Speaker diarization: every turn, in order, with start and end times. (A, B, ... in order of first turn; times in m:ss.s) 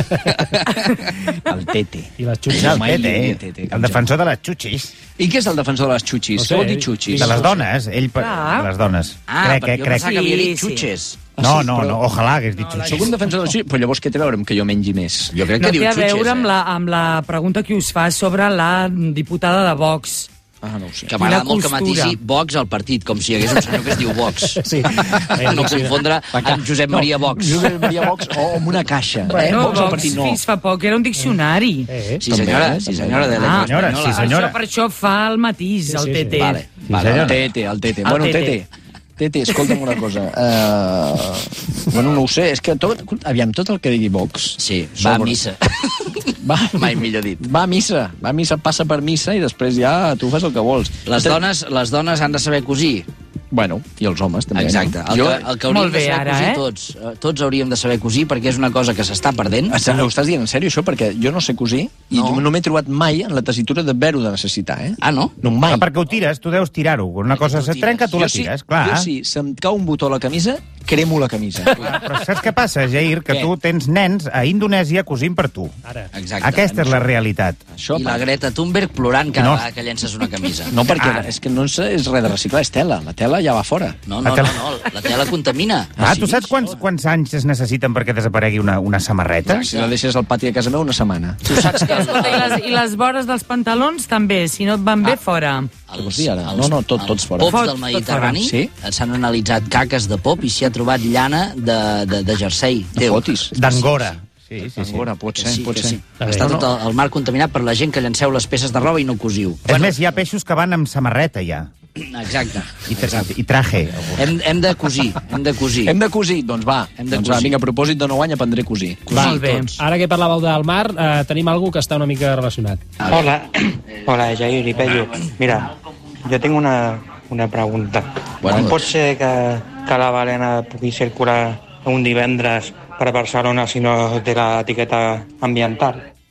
0:00.3-0:00.8 A
0:01.4-0:04.1 B
0:02.2-0:02.8 C
0:02.5-0:04.9 D
0:05.2-0:07.5 B
0:06.4-0:07.7 C
0:07.2-0:10.2 D
0:08.2-0:08.7 E
0:09.3-0:11.2 A
0:09.9-0:10.9 E
0:11.4-0:12.0 B
0:11.4-0:13.1 D
0:12.8-0:15.4 B
0:15.3-0:16.5 A
0:15.5-0:20.3 E
0:20.6-0:21.1 B
0:21.1-0:24.6 A
0:21.1-0:22.2 E
0:24.4-0:26.0 C
0:25.2-0:27.8 A
0:26.3-0:30.4 B
0:29.3-0:31.9 E
0:29.3-0:30.0 C
0:31.9-0:32.2 C
0:32.2-0:34.3 A
0:32.2-0:33.8 B
0:33.3-0:36.7 E
0:33.6-0:34.6 D
0:35.9-0:36.4 C
0:36.4-0:37.5 A
0:36.9-0:37.4 D
0:37.1-0:45.4 B
0:38.0-0:38.6 E
0:39.5-0:39.8 E
0:44.6-0:47.4 A
0:46.4-0:51.4 B
0:51.0-0:53.1 A
0:53.5-0:55.5 B
0:54.5-0:59.8 A
0:55.7-0:56.6 E
0:59.7-1:05.8 B
1:02.1-1:02.4 A
1:05.0-1:05.3 A
1:05.7-1:09.1 D
1:07.3-1:08.1 A
1:08.1-1:12.0 B
1:11.8-1:15.7 D
1:15.8-1:16.1 C
1:16.1-1:17.1 A
1:16.4-1:17.6 D
1:17.7-1:18.3 B
1:17.9-1:21.3 A
1:19.3-1:19.6 D
1:20.7-1:24.0 B
1:24.1-1:26.8 A
1:24.2-1:24.7 D
1:26.0-1:26.4 B
1:26.0-1:29.7 D
1:29.5-1:29.9 A
1:29.5-1:31.7 B
1:31.4-1:32.6 A
1:31.8-1:35.7 E
1:35.9-1:43.9 A
1:35.9-1:37.6 B
1:37.4-1:38.4 E
1:38.4-1:38.7 B
1:43.0-1:43.5 B
1:43.5-1:45.1 D
1:44.8-1:46.7 B
1:45.4-1:50.0 A
1:46.2-1:46.5 C
1:49.7-1:51.7 D
1:52.0-1:53.3 A
1:52.9-1:54.3 D
1:54.2-1:56.0 A
1:55.8-1:59.3 B
1:57.0-1:57.6 A
1:59.1-1:59.7 A
1:59.1-2:02.8 C
1:59.3-1:59.7 E
2:03.0-2:05.7 F
2:06.2-2:16.0 F
2:08.4-2:08.8 A